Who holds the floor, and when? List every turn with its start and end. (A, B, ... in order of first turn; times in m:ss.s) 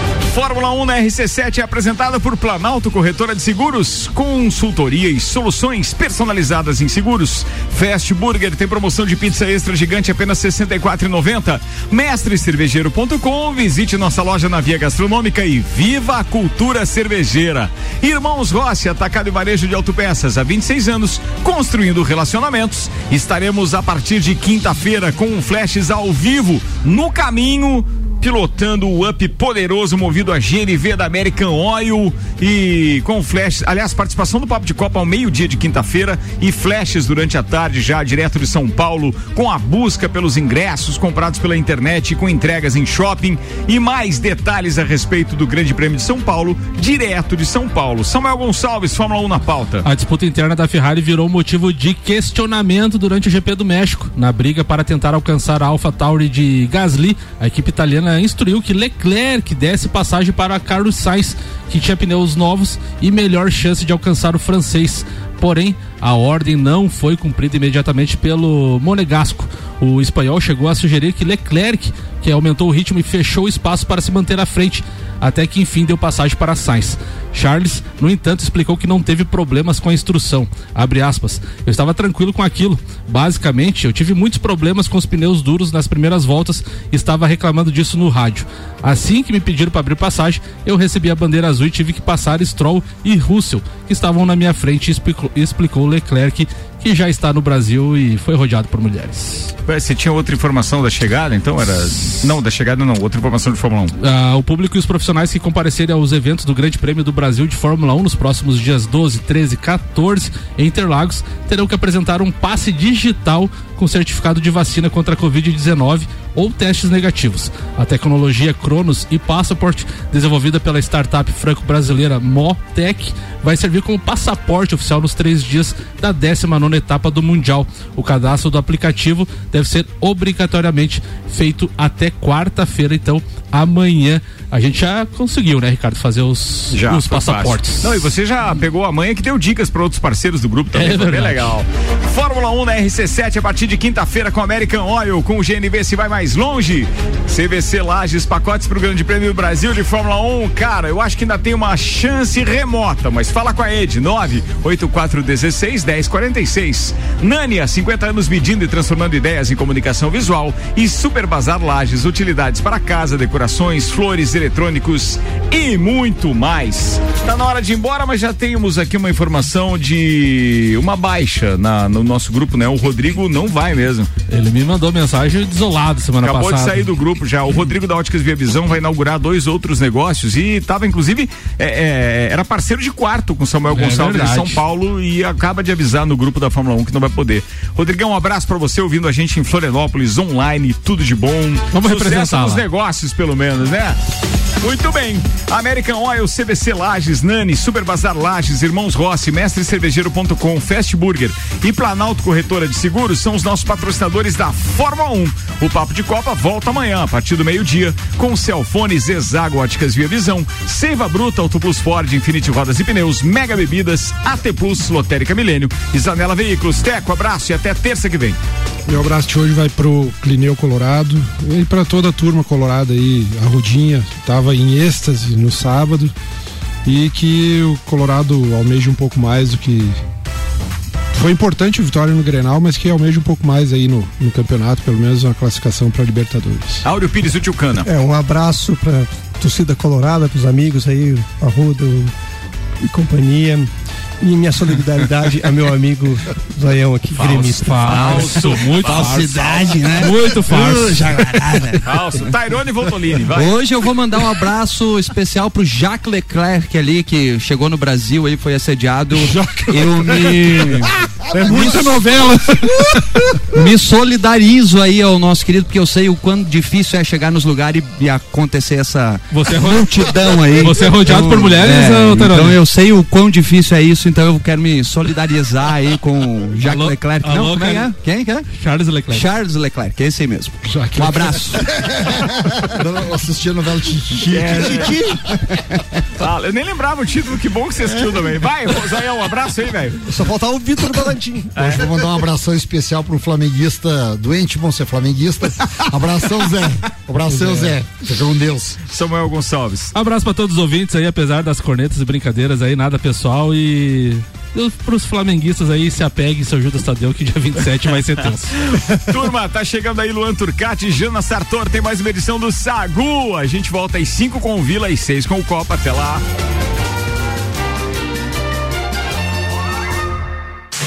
0:00.3-0:49.9 A
0:49.8-1:39.5 B
1:39.7-1:44.0 A
1:44.0-2:18.0 B
2:16.7-2:54.1 A
2:20.7-2:21.6 B
2:54.3-2:56.9 B
2:56.2-3:14.0 A
3:03.7-3:04.6 B
3:11.7-3:12.6 B
3:14.6-3:38.4 A
3:38.9-3:46.1 C
3:46.8-3:50.0 C
3:51.1-3:56.8 C
3:56.8-3:57.9 A
3:57.8-4:02.1 D
4:02.9-4:03.7 D
4:04.2-4:08.4 D
4:07.1-4:11.3 B
4:07.8-4:09.2 A
4:08.8-4:11.8 E
4:11.8-4:13.6 A
4:13.3-4:22.7 E
4:19.2-4:20.8 C
4:21.2-4:22.2 F
4:21.3-4:23.3 C
4:23.5-4:38.5 E
4:29.3-4:32.6 B
4:36.6-4:38.0 B
4:38.5-4:39.3 B
4:39.1-4:41.7 E
4:40.6-4:41.6 C
4:41.0-4:45.6 F
4:44.3-4:45.0 A
4:44.4-4:44.7 E
4:44.8-4:45.2 D
4:46.2-4:50.1 A
4:50.1-4:51.5 D
4:51.6-4:51.9 A
4:51.6-4:58.8 F
4:57.3-4:57.7 D
4:58.9-4:59.9 A
4:59.9-5:08.6 B
5:08.6-5:16.2 A